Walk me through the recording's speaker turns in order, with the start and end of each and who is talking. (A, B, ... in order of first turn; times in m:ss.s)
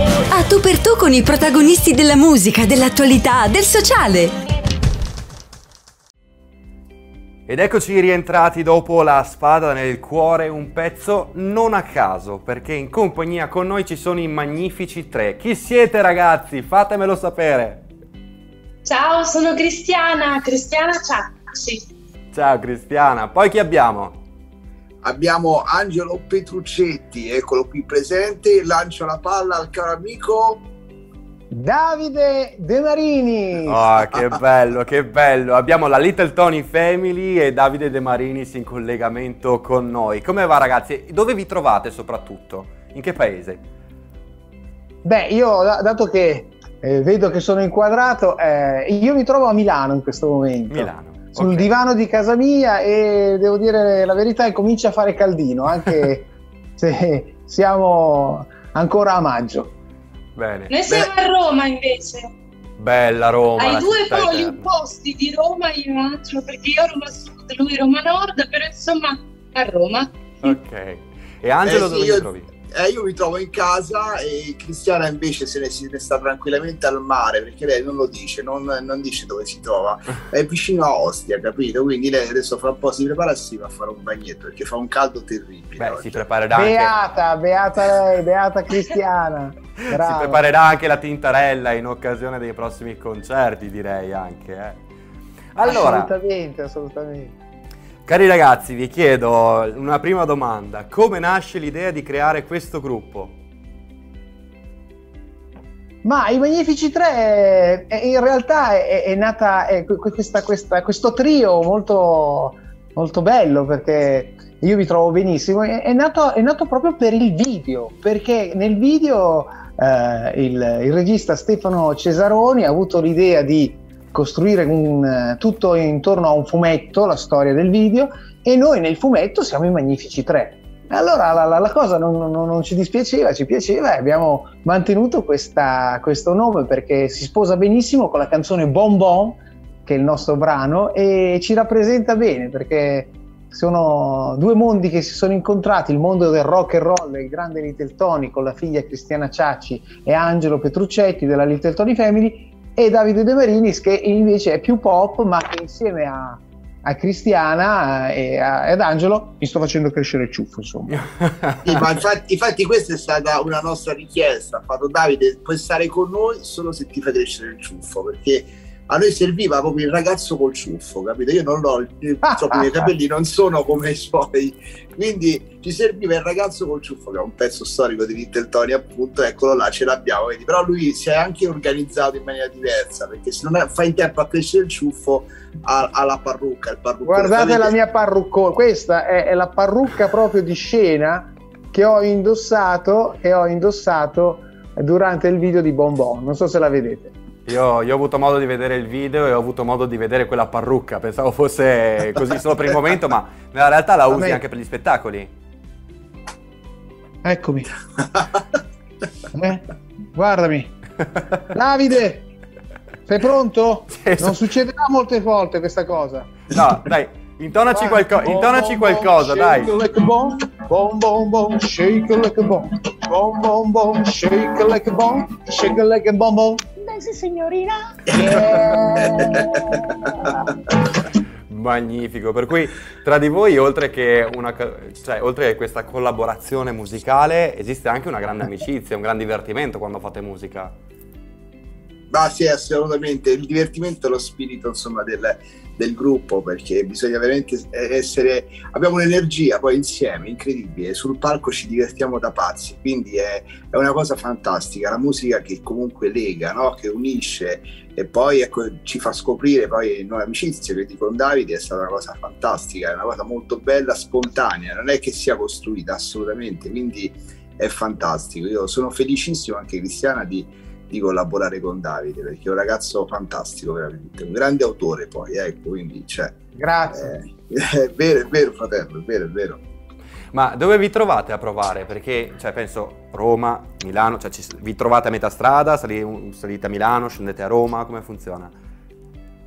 0:00.3-0:04.3 A
0:07.5-0:17.8 B
0:18.8-0:21.9 C
0:22.3-0:24.2 B
0:25.0-0:30.6 D
0:31.5-0:33.8 E
0:33.6-0:43.6 B
0:45.0-0:59.7 E
0:50.7-0:51.7 B
1:00.4-1:00.7 B
1:00.7-1:02.3 C
1:02.8-1:04.7 B
1:03.6-1:10.6 C
1:10.4-1:12.5 B
1:11.6-1:26.2 D
1:25.8-1:26.9 B
1:26.5-1:30.4 E
1:29.9-1:34.8 B
1:35.5-1:36.1 B
1:35.6-1:37.4 E
1:38.1-1:43.4 B
1:46.0-2:41.1 E
2:40.9-2:41.9 B
2:41.6-3:07.7 D
2:52.3-2:52.9 E
3:07.1-3:17.1 E
3:17.5-3:25.3 B
3:24.1-3:24.4 E
3:27.2-3:27.7 E
3:29.3-3:30.7 E
3:31.5-3:32.3 E
3:33.1-3:36.4 E
3:33.9-3:34.4 B
3:36.5-3:39.7 B
3:37.7-3:50.6 E
3:48.1-3:49.8 D
3:51.5-4:00.7 B
4:02.1-4:36.4 D
4:36.5-4:37.1 E
4:36.9-4:39.6 D
4:40.3-4:48.5 B